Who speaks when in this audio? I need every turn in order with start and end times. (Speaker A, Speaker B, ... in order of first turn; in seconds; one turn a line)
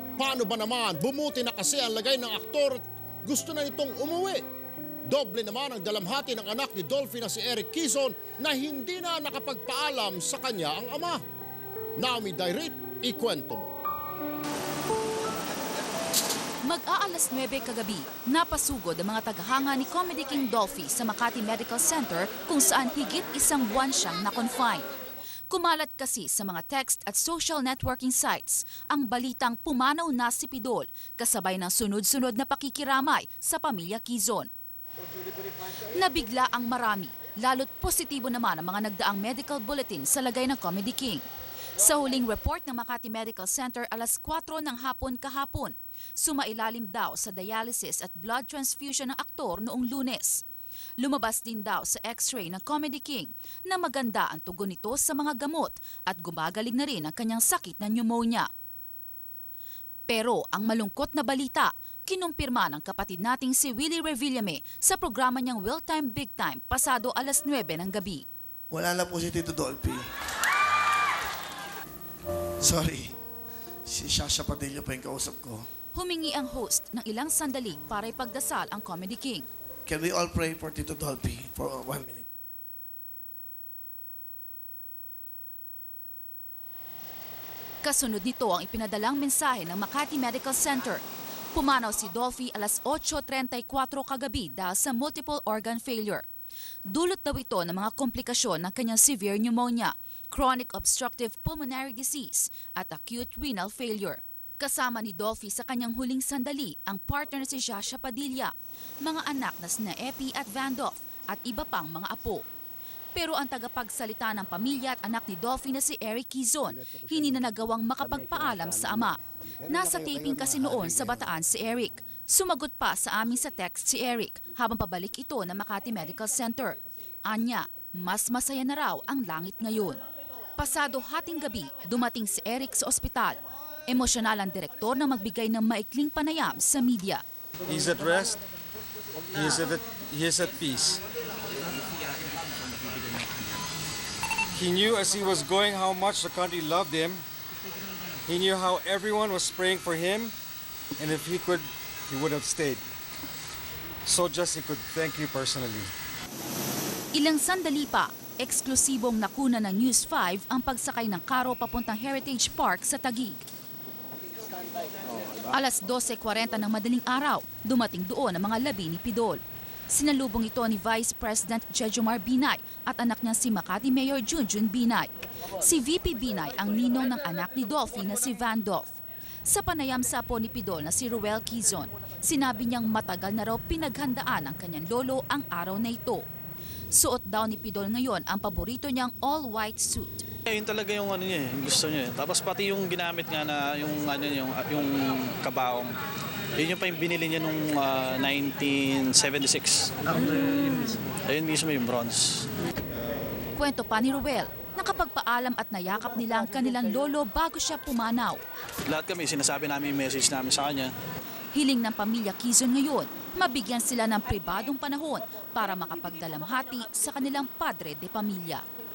Speaker A: 0.2-4.4
Speaker A: 5.1-11.2
Speaker A: 12.0-13.7
Speaker B: 16.6-24.9
Speaker B: 25.5-34.5
Speaker B: 35.9-41.2
Speaker B: 41.8-50.4
Speaker B: 51.0-58.5
Speaker B: 60.1-68.2
Speaker C: 68.7-70.1
Speaker C: 72.6-73.2
Speaker C: 73.9-75.7
Speaker B: 75.9-79.5
Speaker C: 79.8-82.3
Speaker B: 87.8-96.2
Speaker B: 96.9-112.4
Speaker B: 113.1-130.0
Speaker B: 130.6-137.2
Speaker D: 137.7-138.4
Speaker D: 139.3-141.0
Speaker D: 144.5-147.2
Speaker D: 148.3-150.3
Speaker D: 151.0-152.8
Speaker D: 154.1-155.9
Speaker B: 157.1-163.4
Speaker B: 165.5-186.2
Speaker B: 186.9-190.2
Speaker E: 190.4-195.9
Speaker E: 196.6-202.4
Speaker B: 203.5-208.4
Speaker E: 208.9-210.9
Speaker B: 211.5-218.6